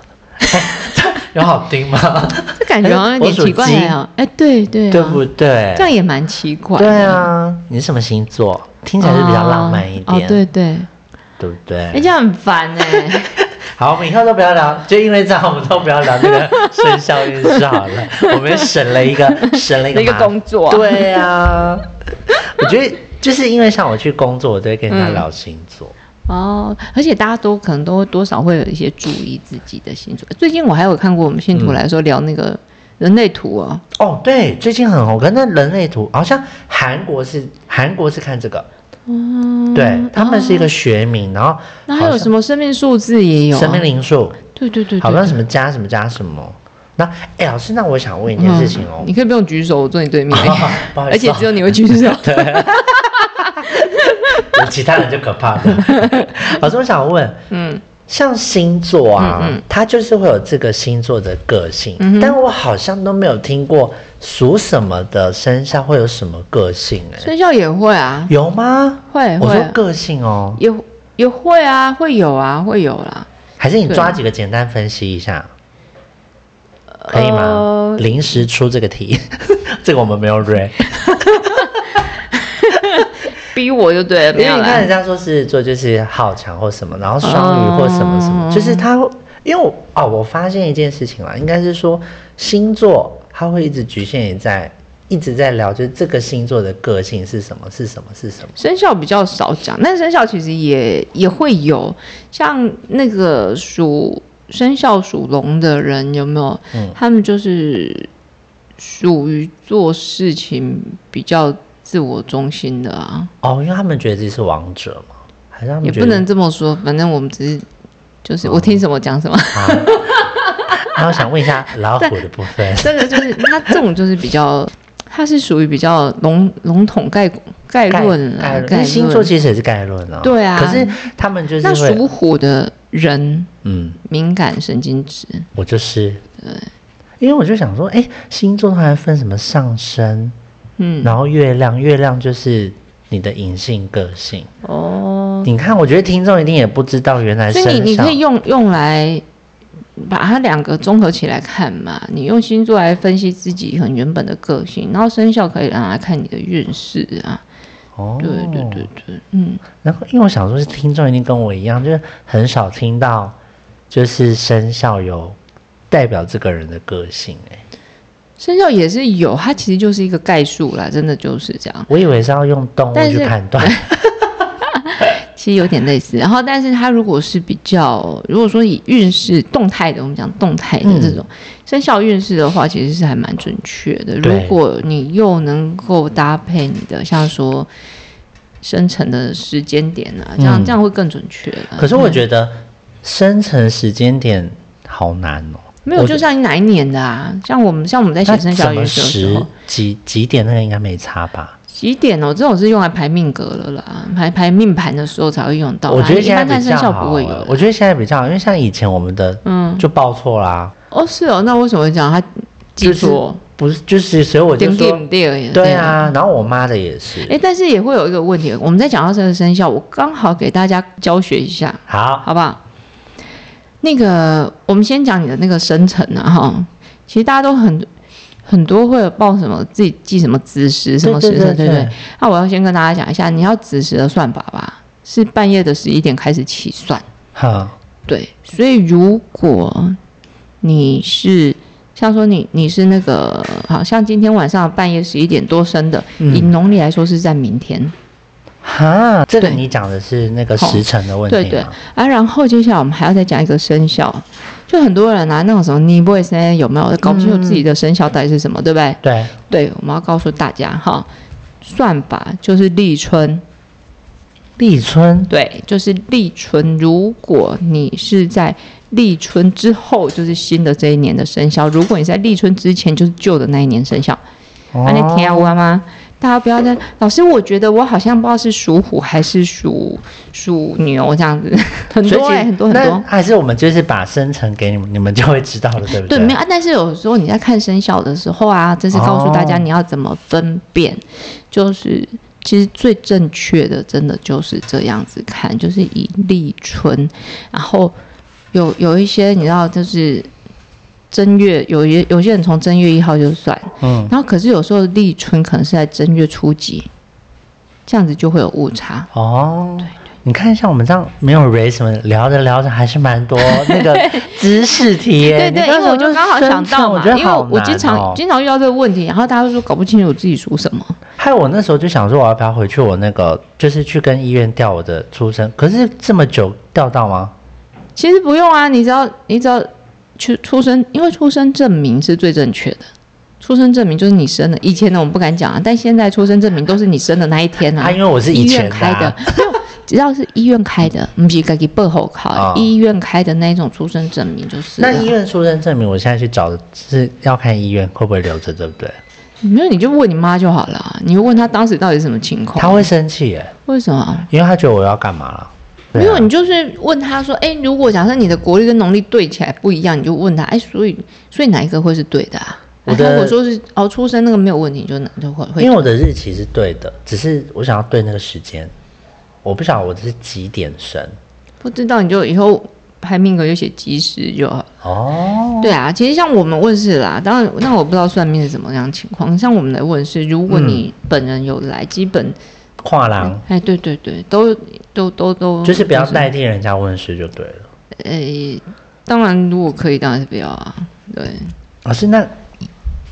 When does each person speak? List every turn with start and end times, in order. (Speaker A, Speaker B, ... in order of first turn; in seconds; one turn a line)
Speaker A: 0.5-4.0
Speaker B: 2.5-5.2
Speaker A: 4.9-5.9
Speaker B: 5.7-7.3
Speaker A: 6.8-10.4
Speaker B: 9.0-10.9
Speaker A: 11.4-12.1
Speaker B: 11.9-13.4
Speaker A: 13.0-25.9
Speaker B: 16.2-21.2
Speaker B: 24.9-25.2
Speaker B: 26.3-33.8
Speaker A: 31.5-31.8
Speaker A: 34.0-38.7
Speaker B: 39.1-40.7
Speaker A: 39.7-42.3
Speaker B: 41.9-43.8
Speaker A: 43.5-44.4
Speaker B: 44.5-45.4
Speaker A: 45.0-49.1
Speaker B: 48.4-54.6
Speaker A: 50.3-57.4
Speaker B: 55.7-56.5
Speaker B: 57.5-57.8
Speaker A: 58.1-67.3
Speaker B: 59.2-59.6
Speaker B: 62.0-62.4
Speaker B: 67.2-68.3
Speaker A: 68.3-70.6
Speaker B: 69.1-69.8
Speaker B: 70.6-73.3
Speaker A: 73.6-75.5
Speaker B: 73.9-74.2
Speaker B: 77.0-78.2
Speaker A: 77.1-82.0
Speaker B: 81.3-84.9
Speaker A: 84.3-98.6
Speaker B: 87.2-88.8
Speaker B: 98.6-108.1
Speaker B: 108.8-113.3
Speaker A: 113.4-116.2
Speaker B: 115.8-117.6
Speaker B: 118.2-121.0
Speaker A: 118.4-118.8
Speaker A: 119.5-123.8
Speaker B: 122.0-129.3
Speaker A: 127.9-132.0
Speaker B: 130.2-131.0
Speaker B: 131.6-133.5
Speaker A: 133.6-134.0
Speaker B: 134.0-135.5
Speaker A: 135.6-136.2
Speaker B: 136.4-136.7
Speaker A: 137.2-140.3
Speaker B: 140.8-141.1
Speaker A: 141.0-144.5
Speaker B: 144.6-145.5
Speaker A: 145.4-148.2
Speaker B: 147.5-149.2
Speaker B: 150.0-157.4
Speaker A: 157.9-158.9
Speaker B: 158.2-159.6
Speaker A: 159.8-163.4
Speaker A: 163.9-165.4
Speaker A: 165.9-167.6
Speaker B: 168.4-171.9
Speaker A: 171.9-173.9
Speaker B: 172.9-173.9
Speaker B: 174.7-187.7
Speaker A: 180.8-181.2
Speaker A: 184.2-184.6
Speaker B: 188.6-192.2
Speaker A: 190.4-190.8
Speaker A: 191.8-196.2
Speaker B: 195.8-199.5
Speaker A: 198.2-201.6
Speaker B: 201.7-207.6
Speaker A: 205.9-210.7
Speaker B: 209.4-209.8
Speaker B: 210.9-213.4
Speaker A: 212.8-217.3
Speaker B: 214.6-216.0
Speaker B: 217.2-222.6
Speaker A: 221.9-222.2
Speaker B: 223.8-227.9
Speaker B: 228.4-237.1
Speaker A: 231.0-231.9
Speaker A: 237.3-237.7
Speaker B: 238.1-240.0
Speaker B: 240.6-247.9
Speaker A: 246.2-246.5
Speaker A: 248.6-251.8
Speaker B: 250.6-261.1
Speaker A: 257.0-257.6
Speaker A: 259.0-259.3
Speaker B: 261.6-263.4
Speaker A: 264.6-265.3
Speaker B: 265.3-274.2
Speaker A: 274.7-275.5
Speaker B: 274.8-283.0
Speaker A: 282.1-286.4
Speaker B: 286.0-297.9
Speaker A: 288.9-289.6
Speaker B: 298.5-300.3
Speaker B: 301.1-306.9
Speaker A: 303.8-304.1
Speaker B: 307.9-309.1
Speaker A: 309.1-318.2
Speaker B: 313.4-314.4
Speaker B: 315.3-321.0
Speaker A: 321.2-327.3
Speaker B: 327.9-332.9
Speaker B: 333.4-345.1
Speaker A: 337.8-339.4
Speaker A: 342.3-342.7
Speaker A: 344.8-349.0
Speaker B: 349.4-352.9
Speaker A: 352.6-353.5
Speaker B: 353.7-354.3
Speaker A: 354.3-356.3
Speaker B: 355.9-365.9
Speaker A: 362.9-363.3
Speaker A: 365.6-368.7
Speaker A: 369.4-371.1
Speaker B: 371.6-374.7
Speaker A: 374.8-375.7
Speaker B: 375.6-382.4
Speaker A: 380.5-380.8
Speaker A: 382.8-383.4
Speaker B: 383.2-386.3
Speaker A: 385.6-387.7
Speaker B: 388.0-391.5
Speaker A: 391.8-392.3